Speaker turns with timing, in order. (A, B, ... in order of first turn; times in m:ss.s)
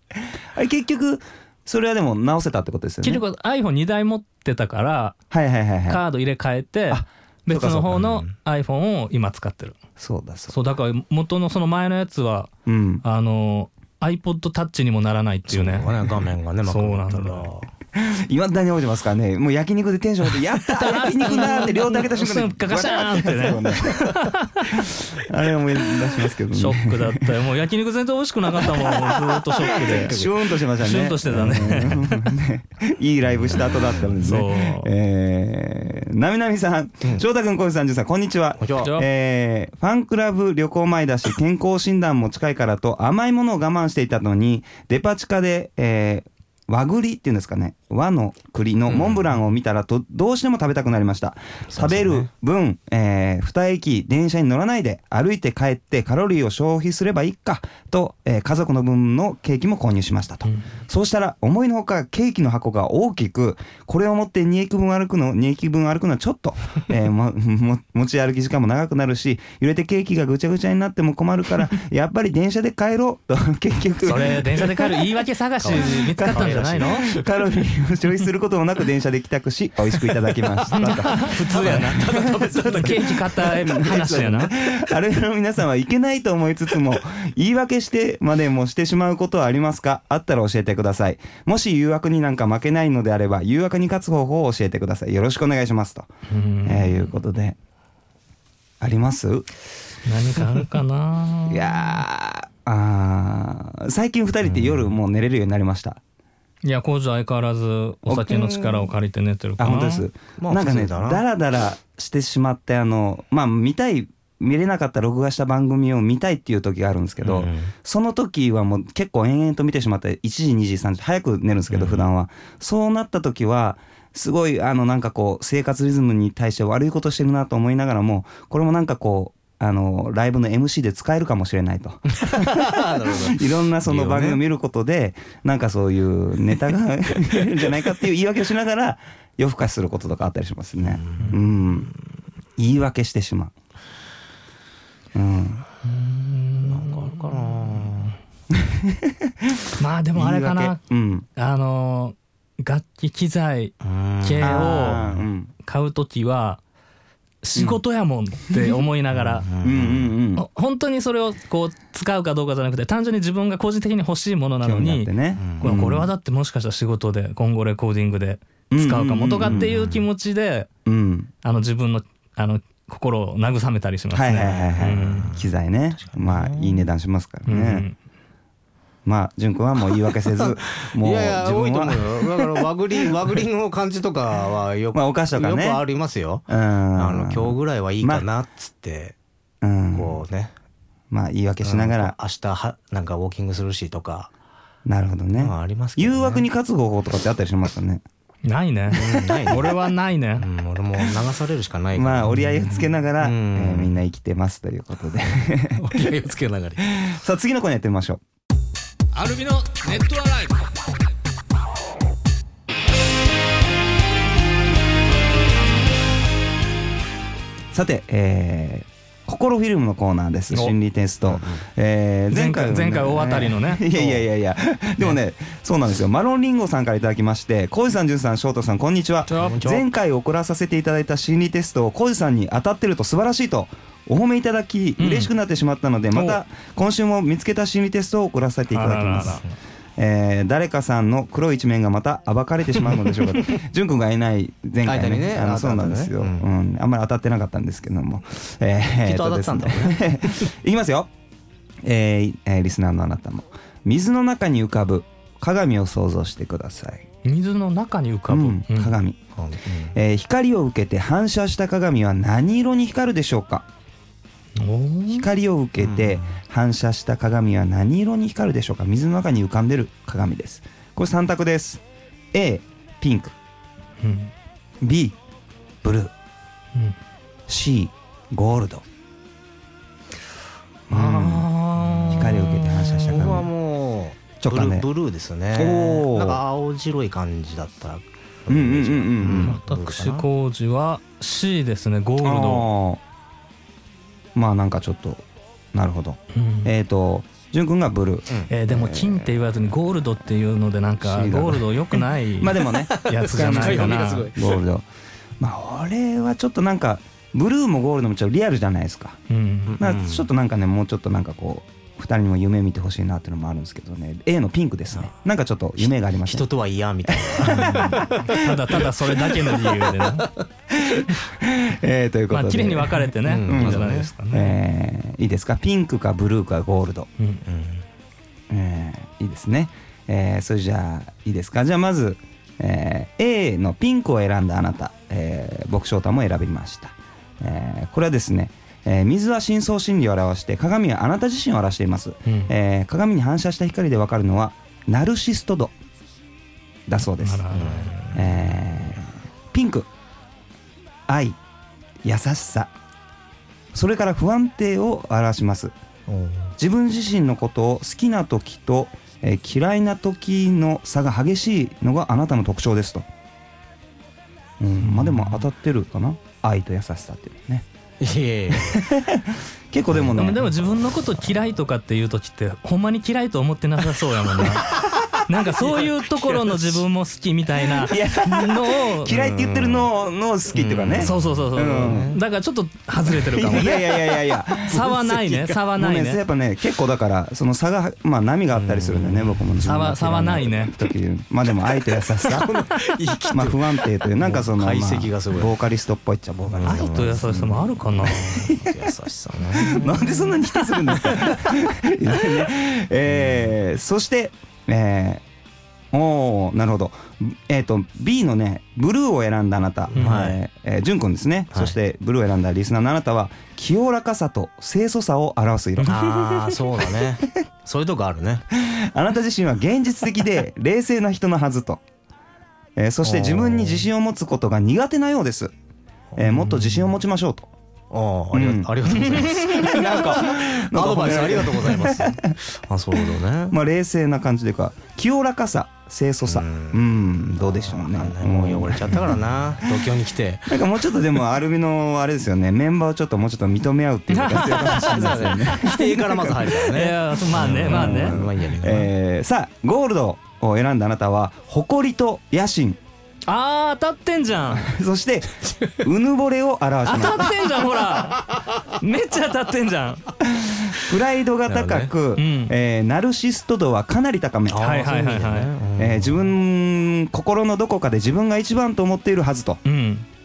0:00.5-0:03.2 A
0:03.0-0:05.2 B
0:05.3-0:06.0 A
0:05.9-0:09.8 B
0:06.9-0:08.1 A
0:08.0-0:08.3 C
0:10.0-0:10.6 A
0:10.5-0:12.5 B
0:12.7-0:13.0 A
0:13.0-0:16.1 B
0:15.5-0:17.7 C
0:16.6-0:17.5 B
0:17.9-0:27.4 A
0:20.7-0:24.9 B
0:26.0-0:32.3 B
0:29.1-0:30.3 C
0:29.6-1:15.0 A
0:34.2-0:34.9 B
0:38.6-0:38.9 C
0:48.9-0:49.3 C
0:51.7-0:52.3 C
1:14.0-1:17.1 B
1:15.6-1:17.3 C
1:15.8-1:36.1 A
1:20.7-1:23.2 C
1:20.7-1:24.5 B
1:36.3-1:37.0 B
1:36.6-1:37.6 A
1:38.8-1:39.5 A
1:40.0-1:42.0 B
1:41.5-1:46.0 A
1:44.5-1:44.9 C
1:46.6-1:50.1 B
1:48.1-1:48.9 A
1:49.6-2:21.9 A
1:50.4-1:51.2 C
1:57.2-1:57.7 C
2:01.7-2:02.1 C
2:12.2-2:14.4 C
2:20.8-2:21.4 C
2:22.6-2:23.5 A
2:25.2-2:25.6 A
2:25.8-2:28.0 B
2:26.6-2:28.2 C
2:28.5-2:31.3 A
2:29.8-2:30.8 B
2:31.4-2:35.1 B
2:33.8-2:35.2 C
2:34.4-2:35.5 A
2:35.6-2:36.6 B
2:37.4-2:39.5 B
2:39.1-2:40.1 C
2:39.6-2:40.5 A
2:40.4-2:50.7 B
2:44.6-2:46.1 A
2:45.4-2:45.8 C
2:48.7-2:49.8 A
2:49.4-2:50.0 C
2:50.9-2:51.3 A
2:51.4-2:55.3 B
2:54.1-2:57.9 A
2:54.7-2:56.9 C
2:57.5-2:58.0 B
2:59.0-3:02.7 A
3:00.1-3:09.2 C
3:04.9-3:05.8 A
3:06.5-3:08.3 A
3:09.6-3:10.2 A
3:09.9-3:10.5 C
3:11.1-3:12.2 A
3:11.6-3:14.3 C
3:14.8-3:18.0 A
3:15.4-3:16.4 C
3:18.5-3:20.5 B
3:18.9-3:19.7 C
3:20.4-3:24.0 C
3:22.0-3:26.1 A
3:25.8-3:26.8 C
3:26.8-3:28.2 A
3:29.1-3:30.6 B
3:37.7-3:59.4 A
3:41.3-3:41.6 C
3:42.3-3:44.2 B
3:49.3-3:49.8 C
3:49.3-3:49.6 B
3:55.0-3:55.3 B
3:56.1-3:56.4 B
3:58.7-3:59.5 B
4:00.0-4:11.1 A
4:04.8-4:06.5 C
4:09.0-4:10.5 C
4:11.8-4:17.1 A
4:17.2-4:19.0 B
4:18.3-4:19.2 A
4:19.4-4:20.0 C
4:19.9-4:23.7 A
4:24.6-4:25.3 B
4:25.1-4:31.8 A
4:25.8-4:26.4 C
4:32.3-4:33.4 A
4:34.0-4:34.3 B
4:34.8-4:35.2 A
4:35.8-4:36.1 A
4:37.5-4:38.8 A
4:40.9-4:41.5 A
4:40.9-4:43.3 B
4:42.1-4:43.5 A
4:43.0-4:50.3 C
4:44.4-4:44.9 A
4:45.5-4:46.4 A
4:48.5-4:49.6 A
4:49.4-4:52.7 B
4:52.2-4:53.0 A
4:54.4-4:55.2 A
4:55.7-4:59.4 A
4:56.3-4:56.7 B
4:58.5-5:04.3 B
5:01.0-5:01.8 A
5:02.4-5:04.9 A
5:02.9-5:04.6 C
5:05.4-5:09.2 A
5:09.3-5:09.8 B
5:09.7-5:10.3 C
5:09.8-5:16.5 A
5:15.8-5:20.4 C
5:17.1-5:18.3 A
5:17.5-5:20.3 B
5:20.7-5:27.1 A
5:22.3-5:24.6 B
5:23.2-5:24.1 C
5:27.4-5:27.8 C
5:28.5-5:45.7 A
5:42.3-5:42.5 B
5:46.9-5:47.5 A
5:47.2-5:48.0 B
5:47.5-5:48.6 C
5:48.1-5:49.9 A
5:51.1-5:51.4 A
5:52.0-5:52.7 A
5:53.7-5:55.7 A
5:56.1-5:56.5 C
5:56.6-6:03.1 A
6:04.6-6:07.7 A
6:04.8-6:05.4 B
6:08.0-6:08.9 C
6:08.5-6:10.5 A
6:09.9-6:10.4 C
6:10.1-6:19.4 B
6:14.4-6:15.2 A
6:16.3-6:16.6 C
6:17.6-6:22.2 A
6:19.2-6:19.9 C
6:20.5-6:22.2 C
6:21.0-6:23.9 B
6:23.3-6:32.7 A
6:23.6-6:23.8 C
6:24.6-6:26.2 B
6:25.3-6:25.6 C
6:28.5-6:29.5 C
6:29.6-6:30.8 B
6:32.2-6:35.6 C
6:33.3-6:38.9 A
6:36.4-6:41.4 C
6:36.6-6:38.5 B
6:39.6-6:45.2 A
6:39.9-6:40.1 B
6:43.1-6:43.5 C
6:45.9-6:57.1 A
6:49.9-6:50.4 C
6:50.0-6:50.2 B
6:55.8-6:58.4 C
6:58.5-7:01.8 A
7:02.8-7:05.5 A
7:03.0-7:03.9 C
7:06.1-7:07.0 C
7:06.2-7:07.5 A
7:07.9-7:13.6 C
7:08.3-7:12.4 A
7:08.9-7:09.9 B
7:13.0-7:19.2 A
7:16.3-7:20.6 C
7:20.5-7:26.5 A
7:24.1-7:28.2 B
7:24.6-7:28.9 C
7:27.4-7:32.8 A
7:33.3-7:34.7 B
7:34.5-7:37.4 A
7:35.5-7:35.8 C
7:36.8-7:40.1 B
7:40.2-7:44.6 A
7:41.5-7:41.9 C
7:42.2-7:42.5 B
7:44.5-7:46.3 C
7:44.6-7:45.5 B
7:45.8-7:49.6 A
7:49.6-7:50.1 B